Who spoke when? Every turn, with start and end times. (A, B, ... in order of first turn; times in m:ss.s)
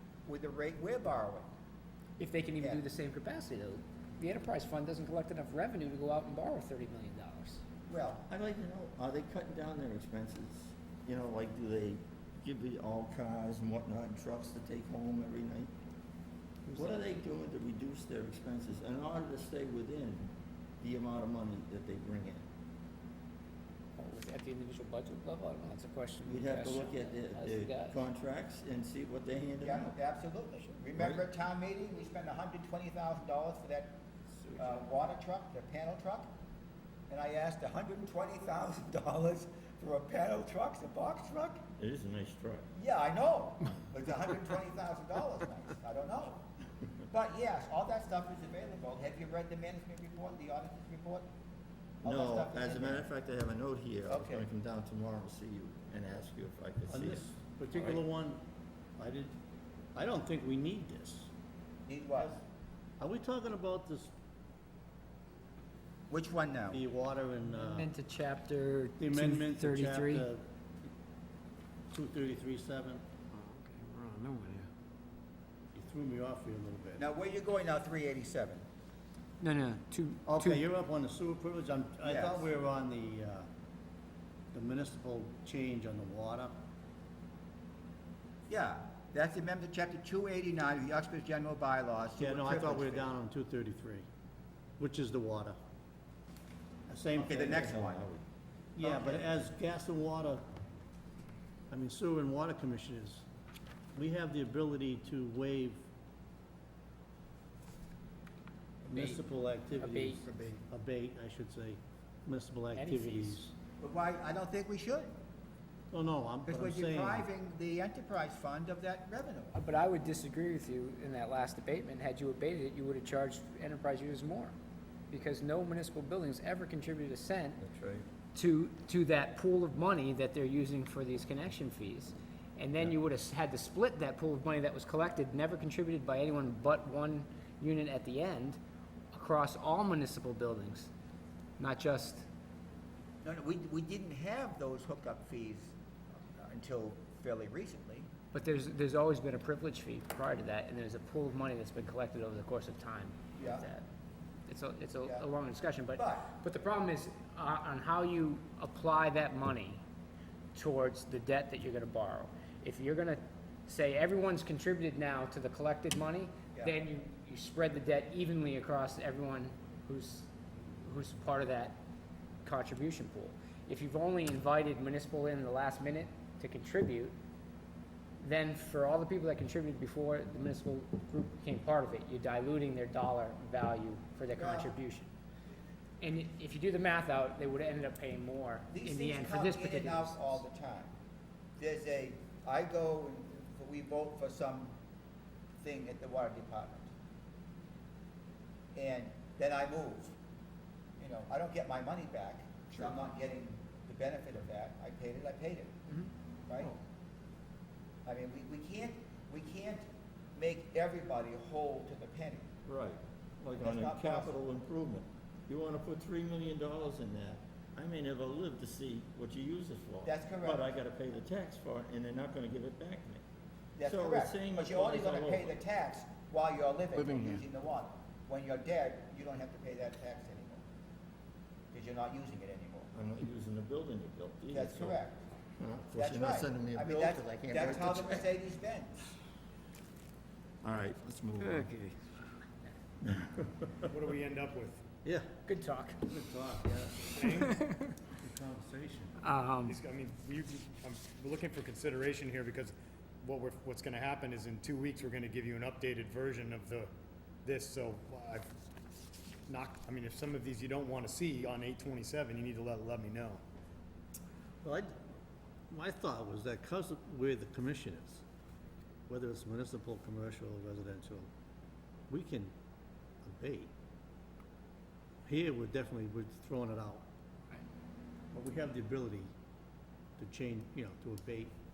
0:00.2-0:01.5 A
0:02.2-0:07.6 B
0:07.9-0:08.2 A
0:08.3-0:15.7 C
0:16.7-0:22.5 C
0:16.7-0:16.9 D
0:24.0-0:28.0 B
0:26.2-0:30.0 C
0:29.6-0:34.0 A
0:31.0-0:31.2 C
0:34.6-0:36.3 A
0:37.1-0:41.6 A
0:41.8-0:42.7 C
0:42.7-0:46.5 A
0:47.1-0:51.3 A
0:52.0-0:57.3 C
0:52.0-0:53.0 A
0:54.0-0:54.5 A
0:56.9-0:58.4 D
0:59.0-0:59.3 D
0:59.9-1:01.3 D
1:01.8-1:02.4 A
1:03.0-1:04.1 D
1:06.1-1:06.8 A
1:06.7-1:07.9 D
1:07.4-1:10.2 B
1:09.0-1:10.4 D
1:11.9-1:13.0 D
1:13.3-1:14.7 E
1:15.7-1:17.0 D
1:17.0-1:18.6 A
1:19.4-1:20.6 B
1:20.2-1:23.5 D
1:22.0-1:22.5 A
1:24.5-1:26.6 D
1:28.5-1:33.1 A
1:32.2-1:34.0 D
1:34.8-1:35.6 D
1:36.9-1:37.9 D
1:37.2-1:38.1 A
1:37.4-1:38.2 C
1:38.8-1:40.4 D
1:38.8-1:39.3 A
1:41.7-1:43.2 D
1:43.9-1:45.9 D
1:48.8-1:53.5 D
1:48.9-1:49.2 B
1:49.8-1:50.4 B
1:52.7-1:53.4 B
1:53.8-1:55.1 A
1:55.9-1:57.3 D
1:56.4-1:59.6 A
1:59.5-2:04.5 B
2:05.1-2:07.6 B
2:07.6-2:08.1 C
2:08.3-2:18.6 B
2:19.1-2:20.9 B
2:21.6-2:22.3 B
2:23.2-2:25.7 A
2:26.3-2:28.1 A
2:28.3-2:33.8 B
2:33.4-2:33.6 A
2:34.5-2:39.8 B
2:35.9-2:36.3 A
2:40.5-2:50.3 B
2:50.8-2:51.8 B
2:52.4-2:57.1 B
2:58.2-3:05.1 B
3:04.3-3:04.7 A
3:06.0-3:10.4 B
3:08.7-3:10.9 A
3:11.6-3:14.8 A
3:15.6-3:16.9 A
3:18.7-3:20.1 A
3:21.0-3:25.8 A
3:26.5-3:26.7 A
3:28.0-3:32.5 A
3:32.7-3:43.2 C
3:33.6-3:34.4 A
3:40.0-3:40.7 A
3:43.8-3:50.6 A
3:43.8-3:45.6 C
3:47.0-3:47.4 E
3:51.7-3:52.9 A
3:52.9-3:55.0 C
3:54.5-3:55.2 A
3:55.6-3:58.2 C
3:56.0-3:59.0 A
4:00.6-4:01.7 C
4:01.5-4:01.9 E
4:03.0-4:03.3 C
4:03.9-4:04.9 F
4:05.0-4:05.3 D
4:05.4-4:06.0 B
4:06.0-4:09.2 D
4:07.1-4:07.6 F
4:07.4-4:07.9 B
4:09.2-4:09.8 B
4:09.6-4:16.9 F
4:17.4-4:18.5 F
4:19.5-4:23.4 F
4:24.6-4:24.9 D
4:25.7-4:28.2 D
4:29.1-4:31.3 D
4:32.1-4:32.5 D
4:33.2-4:33.7 D
4:35.2-4:37.1 D
4:38.3-4:39.3 D
4:40.2-4:41.5 D